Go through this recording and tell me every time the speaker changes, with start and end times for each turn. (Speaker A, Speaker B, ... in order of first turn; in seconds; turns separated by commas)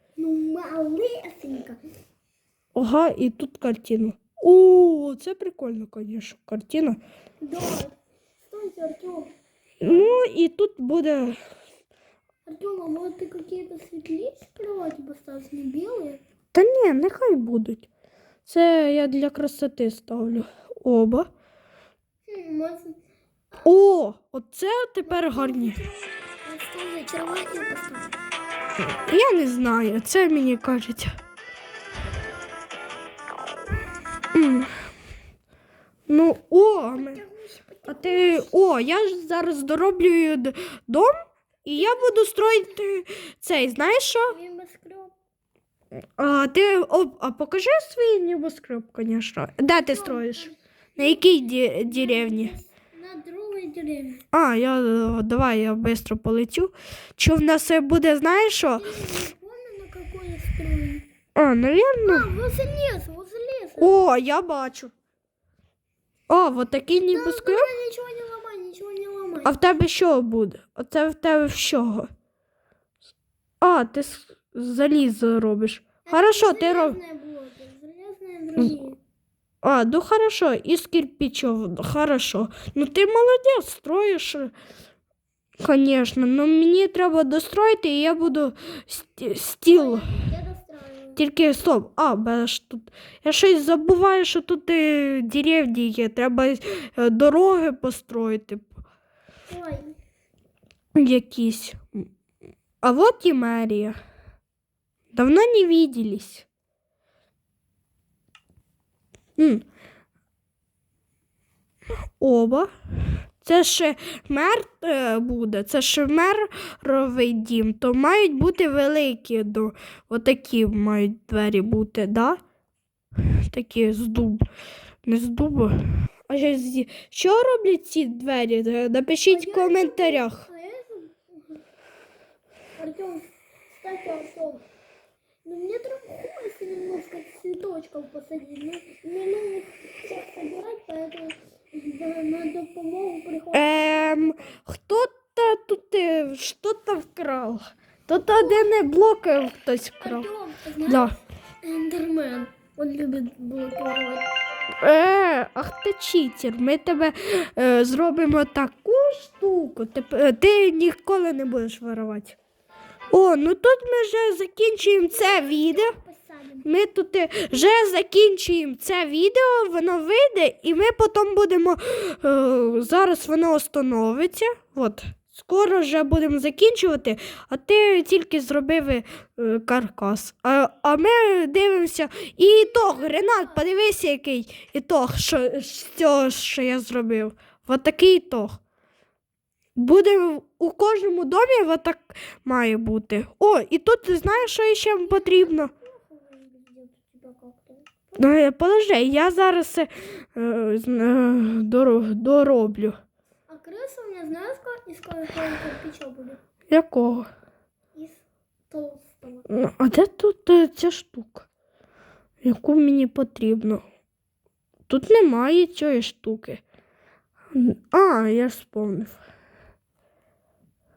Speaker A: 0.2-1.8, Speaker B: 2.7-7.0, Speaker A: 7.4-10.2, Speaker B: 9.8-11.4, Speaker A: 12.4-16.2, Speaker B: 16.5-17.9, Speaker B: 18.4-21.3, Speaker A: 22.3-23.0, Speaker B: 23.6-25.8, Speaker A: 25.0-28.2, Speaker B: 29.0-31.1, Speaker B: 34.3-34.7, Speaker B: 36.1-37.2, Speaker A: 36.9-38.6, Speaker B: 37.9-41.1, Speaker B: 41.6-44.3, Speaker A: 41.8-42.2, Speaker A: 44.3-45.1, Speaker B: 46.2-52.5, Speaker A: 49.8-54.2, Speaker B: 54.3-59.0, Speaker A: 58.8-61.1, Speaker B: 61.3-62.3, Speaker A: 62.0-64.0, Speaker B: 63.8-64.9, Speaker B: 66.3-67.7, Speaker A: 67.0-69.6, Speaker B: 69.4-72.1, Speaker B: 73.6-77.0, Speaker A: 76.0-79.0, Speaker B: 79.6-84.5, Speaker B: 85.6-90.1, Speaker A: 89.7-91.2, Speaker B: 91.2-98.7, Speaker A: 99.5-100.0, Speaker B: 100.9-102.1, Speaker B: 102.8-104.0, Speaker B: 105.1-106.5, Speaker B: 109.4-109.6, Speaker B: 112.2-112.7, Speaker B: 113.4-122.4, Speaker B: 123.5-124.4, Speaker B: 125.0-130.4, Speaker A: 129.3-131.6, Speaker A: 132.8-134.6, Speaker A: 135.4-144.5, Speaker B: 143.5-150.3, Speaker A: 148.3-148.7, Speaker A: 150.0-154.3, Speaker B: 150.9-151.1, Speaker B: 154.8-162.4, Speaker B: 163.1-165.9, Speaker A: 164.8-166.7, Speaker B: 166.6-188.6, Speaker A: 167.5-167.9, Speaker A: 182.5-183.8, Speaker B: 189.8-195.7, Speaker A: 195.0-198.2, Speaker B: 198.2-202.9, Speaker A: 203.5-206.4, Speaker B: 206.7-207.3, Speaker A: 207.9-209.5, Speaker B: 209.5-211.5, Speaker B: 212.4-213.8, Speaker B: 214.9-216.6, Speaker B: 217.5-219.2